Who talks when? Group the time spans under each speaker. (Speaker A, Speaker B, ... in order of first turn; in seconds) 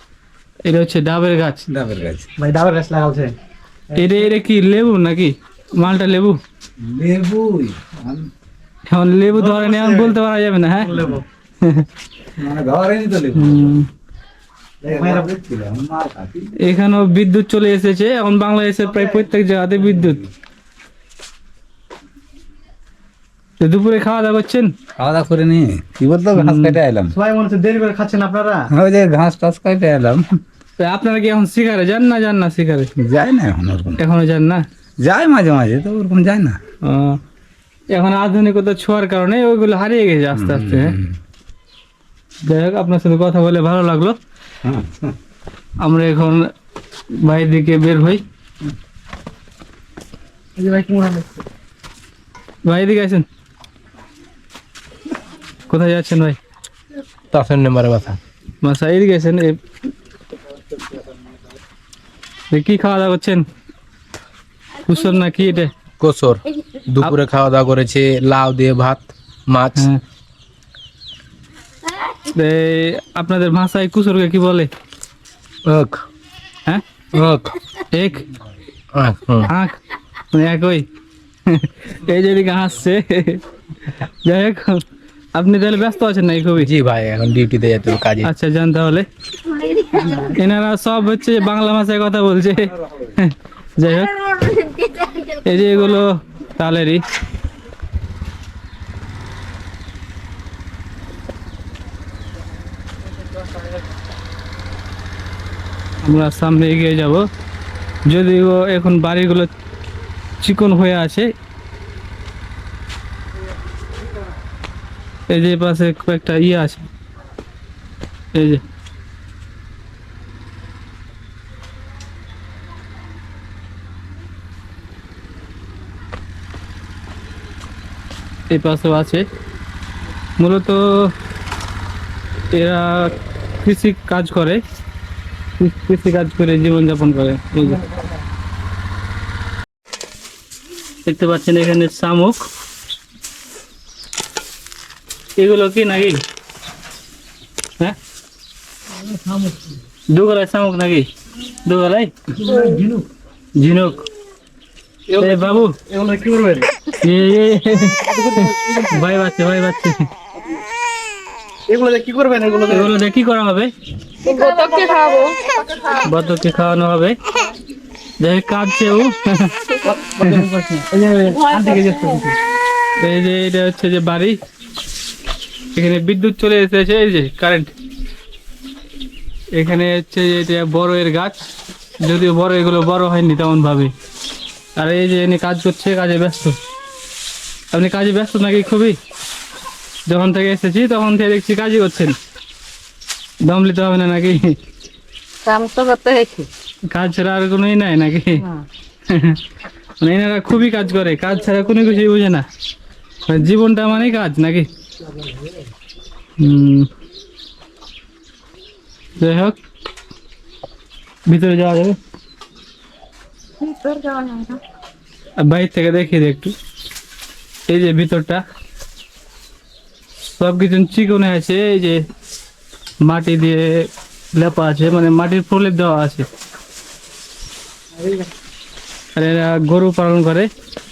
Speaker A: 0.6-1.6, 4.0-6.4, 8.9-10.9, 13.3-13.9, 16.6-20.2, 23.6-24.7, 26.3-26.8, 30.8-32.9, 34.0-34.6, 36.8-37.2, 37.9-40.9, 42.4-44.2, 45.8-46.5, 47.2-48.2, 52.6-53.2, 55.7-56.4, 58.6-59.6, 62.5-63.4, 64.8-65.7, 72.3-74.7, 77.9-78.2, 79.4-79.8, 80.3-80.8, 81.5-83.4, 84.2-84.8, 85.3-86.7, 88.2-89.1, 90.0-94.2, 95.4-97.0, 106.0-107.2, 108.1-109.5, 110.4-111.3, 115.3-116.8, 118.3-118.6, 128.5-129.2, 130.4-131.1, 132.5-133.1, 133.6-134.6, 135.6-137.8, 141.0-142.4, 145.4-146.2, 150.1-151.1, 151.6-152.1, 153.6-154.1, 155.2-155.7, 157.0-160.1, 162.7-163.7, 166.0-167.2, 168.2-169.5, 173.0-174.4, 175.7-177.7, 179.5-181.4, 182.0-183.9, 184.8-186.6, 187.7-189.0, 190.1-192.2, 193.4-194.6, 196.9-198.4, 199.1-199.4, 200.0-202.4, 203.3-204.7, 206.4-206.9, 209.2-209.6, 211.3-212.0, 215.4-216.5, 217.7-218.4, 220.3-222.0, 223.0-226.3, 229.2-230.5
Speaker B: 1.7-2.3, 6.8-8.3, 12.4-13.7, 14.8-16.5, 25.0-27.1, 28.7-30.4, 33.0-34.0, 35.0-36.6, 40.3-41.1, 44.6-45.1
Speaker C: 2.4-3.3, 3.9-4.2, 9.3-10.2, 10.7-11.2, 14.9-15.3, 18.8-19.2, 27.1-28.7, 50.5-51.4, 149.0-149.8, 152.4-153.1, 155.1-156.7, 158.0-159.0, 161.7-162.9, 169.8-172.4, 227.9-228.3
Speaker D: 57.3-58.2, 66.0-66.4, 67.0-69.8, 75.7-76.0, 77.2-77.4, 79.0-79.5, 86.7-88.2
Speaker E: 89.4-90.3, 94.0-95.9, 164.2-165.9, 195.4-196.5, 213.6-214.6